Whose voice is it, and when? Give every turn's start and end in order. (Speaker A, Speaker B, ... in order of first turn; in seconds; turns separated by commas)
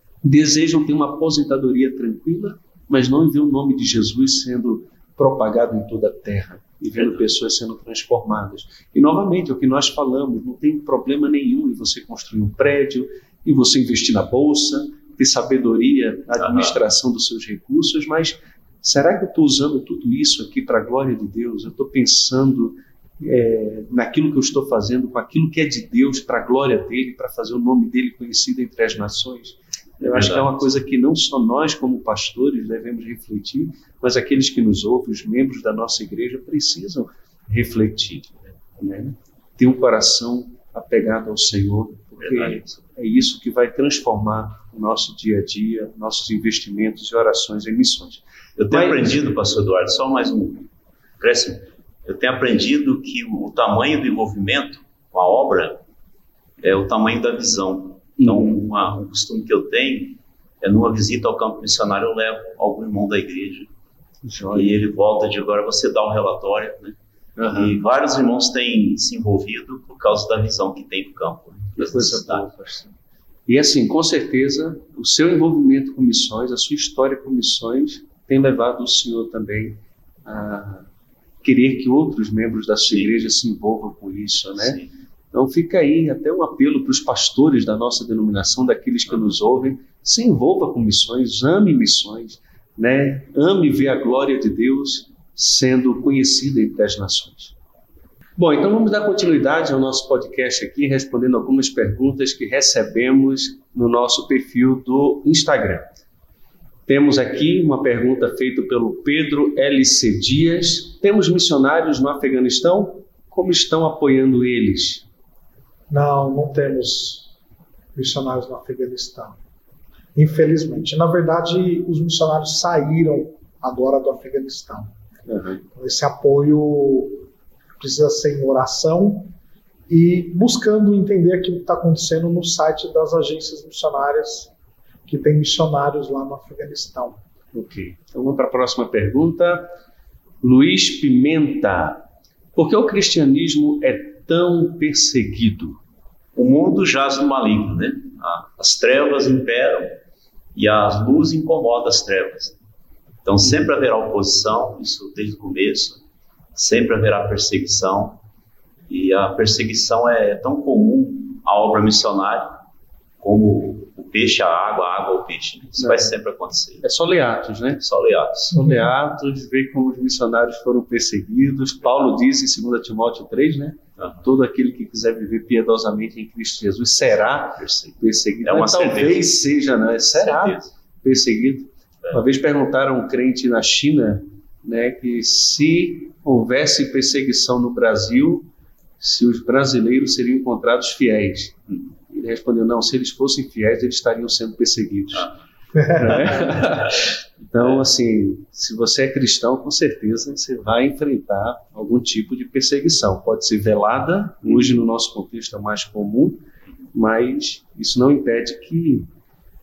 Speaker A: 0.2-49.1, Speaker B: 30.1-30.5, Speaker B: 42.2-42.8, Speaker B: 48.6-50.7, Speaker B: 51.2-55.8, Speaker B: 56.6-63.7, Speaker A: 58.2-58.5, Speaker A: 64.2-64.8, Speaker B: 64.5-67.0, Speaker A: 67.4-67.8, Speaker B: 67.5-72.5, Speaker A: 71.8-72.9, Speaker A: 73.5-80.9, Speaker A: 81.4-84.8, Speaker B: 84.6-84.9, Speaker A: 85.3-97.5, Speaker A: 98.4-105.8, Speaker A: 106.9-115.0, Speaker C: 115.9-117.3, Speaker C: 117.9-119.4, Speaker C: 120.1-124.9, Speaker A: 125.3-125.6, Speaker C: 125.7-127.2, Speaker C: 127.8-129.3, Speaker C: 129.9-134.5, Speaker C: 135.1-137.2, Speaker A: 137.5-139.7, Speaker A: 140.4-145.8, Speaker B: 146.3-150.0, Speaker B: 150.5-152.6, Speaker B: 153.2-156.0, Speaker B: 156.5-158.2, Speaker B: 158.9-162.6, Speaker B: 163.2-166.8, Speaker A: 165.8-166.1, Speaker A: 166.8-167.8, Speaker B: 167.8-168.6, Speaker A: 168.5-188.5, Speaker B: 177.6-179.2, Speaker B: 180.1-180.7, Speaker A: 189.0-206.4, Speaker A: 206.9-209.1